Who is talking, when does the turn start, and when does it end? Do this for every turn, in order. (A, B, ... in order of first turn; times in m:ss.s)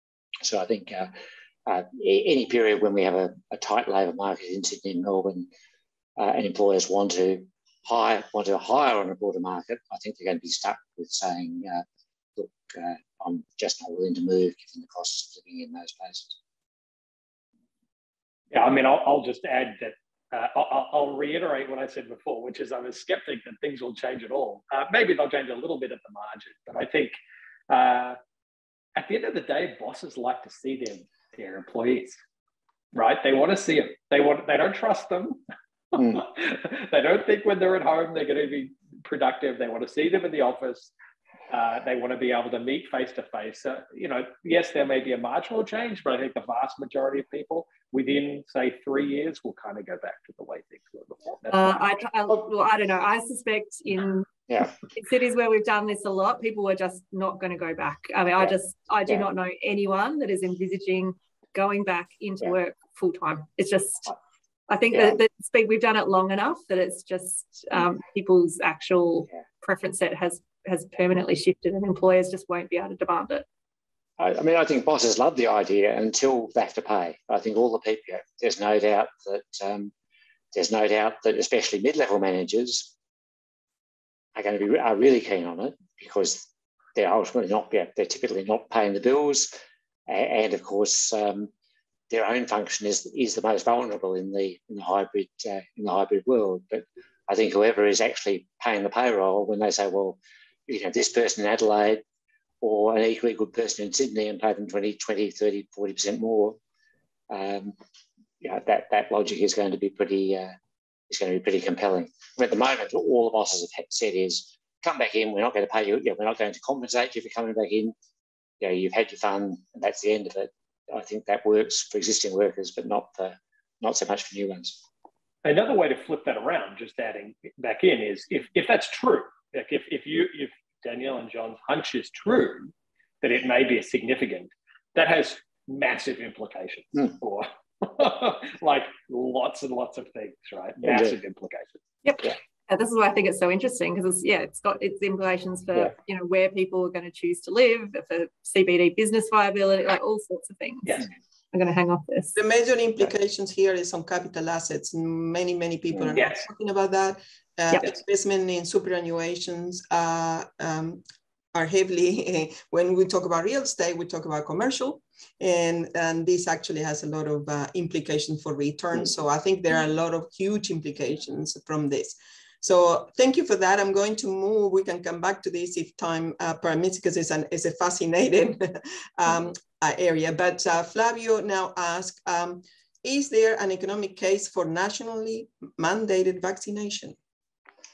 0:00.4-0:05.5 A
0:06.2-0:11.8 A
0:12.4-0:16.4 A
0:18.5-0:27.2 B
0:27.7-0:28.2 B
0:29.0-0:32.2 B
0:32.9-0:35.4 B
0:35.9-0:40.9 B
0:36.0-0:36.2 A
0:41.5-0:51.9 B
0:51.5-0:54.3 C
0:54.5-0:54.7 A
0:54.8-1:04.1 C
1:04.7-1:13.5 C
1:14.2-1:19.9 A
1:20.5-1:22.9 A
1:24.4-1:29.6 A
1:30.1-1:31.5 A
1:32.1-1:42.0 A
1:42.6-1:46.6 A
1:47.3-1:47.8 A
1:48.4-1:50.6 A
1:51.1-1:58.0 A
1:58.6-2:04.8 A
2:05.4-2:12.7 B
2:13.2-2:21.8 B
2:20.8-2:21.2 A
2:22.0-2:32.4 C
2:32.4-2:41.0 D
2:36.2-2:36.4 B
2:41.5-3:07.2 D